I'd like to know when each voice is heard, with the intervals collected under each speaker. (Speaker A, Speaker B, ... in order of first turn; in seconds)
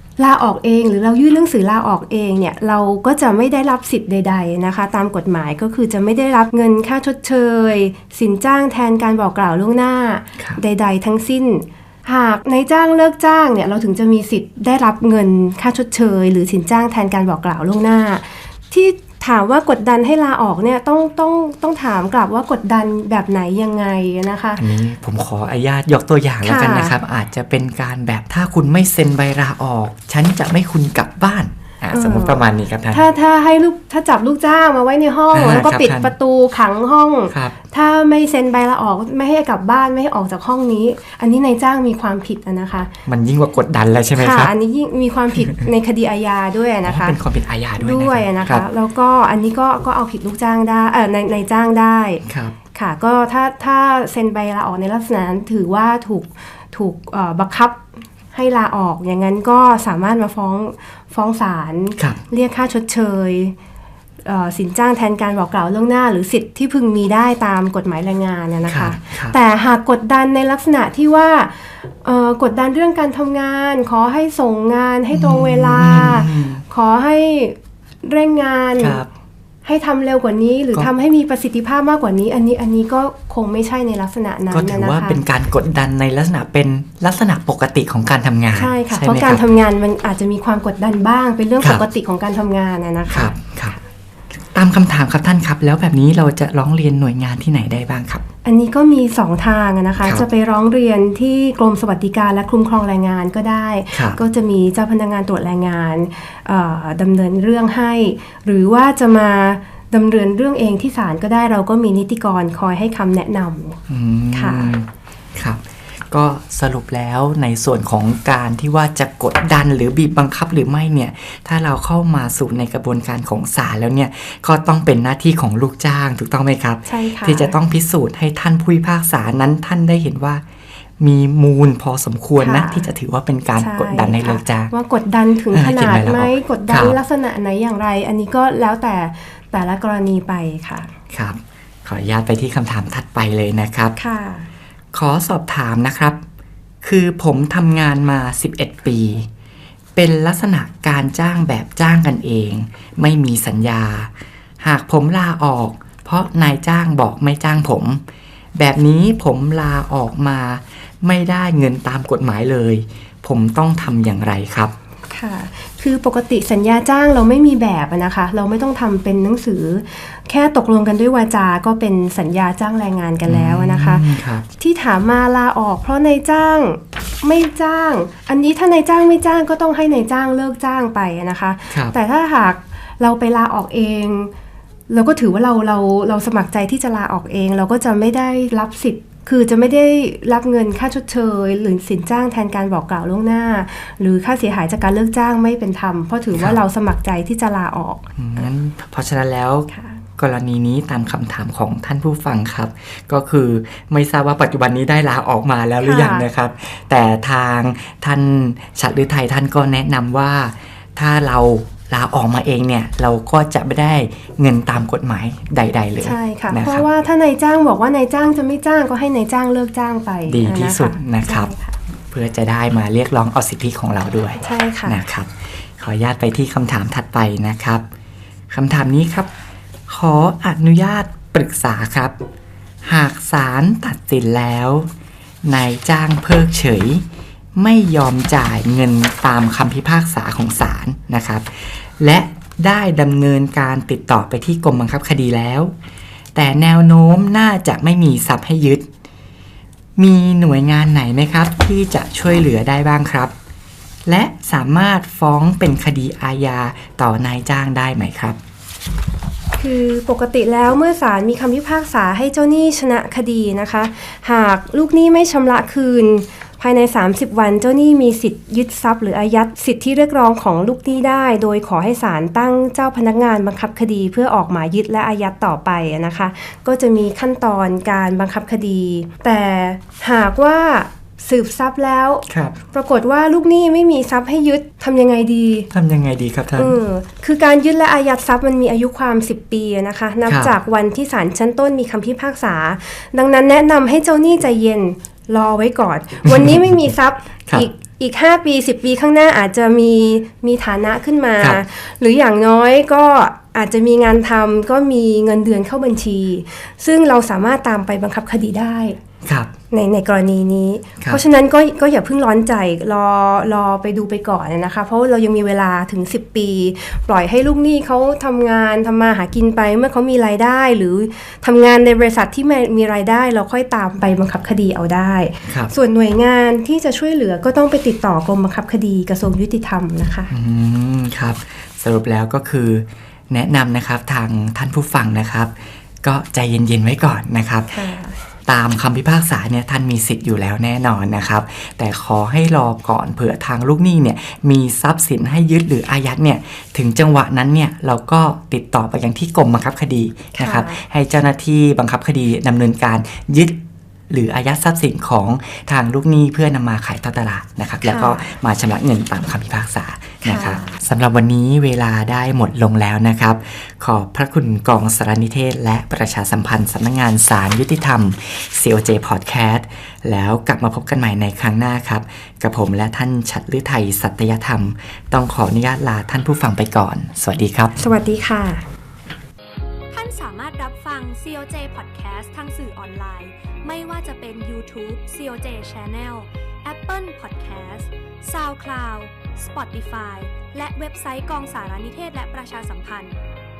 Speaker A: 0.2-24.6, 26.4-26.9, 31.9-42.9, 44.1-47.2, 47.8-52.2, 52.7-63.5, 64.2-79.0, 79.6-85.2, 88.5-93.3, 98.4-113.8, 114.3-114.7, 126.8-127.5, 132.4-132.9, 133.6-140.9, 144.0-144.5, 165.1-174.1, 174.6-184.3, 184.9-198.1, 199.7-200.0, 205.8-206.3, 216.0-221.8, 224.4-225.0, 259.6-285.7, 286.6-309.0, 309.7-330.3, 337.7-338.2, 350.3-350.8, 357.8-358.4, 360.2-360.8, 377.8-378.6
Speaker B: 24.6-33.1, 35.3-36.1, 43.0-44.5, 46.8-48.6, 52.2-52.5, 68.7-69.4, 75.1-76.6, 78.8-79.1, 84.5-89.4, 91.6-91.8, 93.1-93.8, 94.5-98.2, 100.0-100.2, 103.9-104.2, 113.9-130.4, 131.0-134.7, 135.5-137.0, 141.1-143.9, 144.9-146.2, 146.8-149.3, 149.9-154.1, 154.6-158.0, 158.6-164.7, 173.2-174.4, 196.3-196.6, 198.2-216.8, 220.3-221.5, 222.1-227.8, 228.5-229.3, 229.9-232.1, 232.8-234.9, 235.4-237.0, 237.6-245.7, 246.3-248.9, 250.0-253.3, 254.1-258.4, 282.3-282.5, 285.7-286.8, 290.2-290.5, 296.2-296.8, 309.2-309.5, 325.5-325.7, 330.3-337.8, 338.5-353.6, 354.1-377.7
Speaker C: 379.9-393.2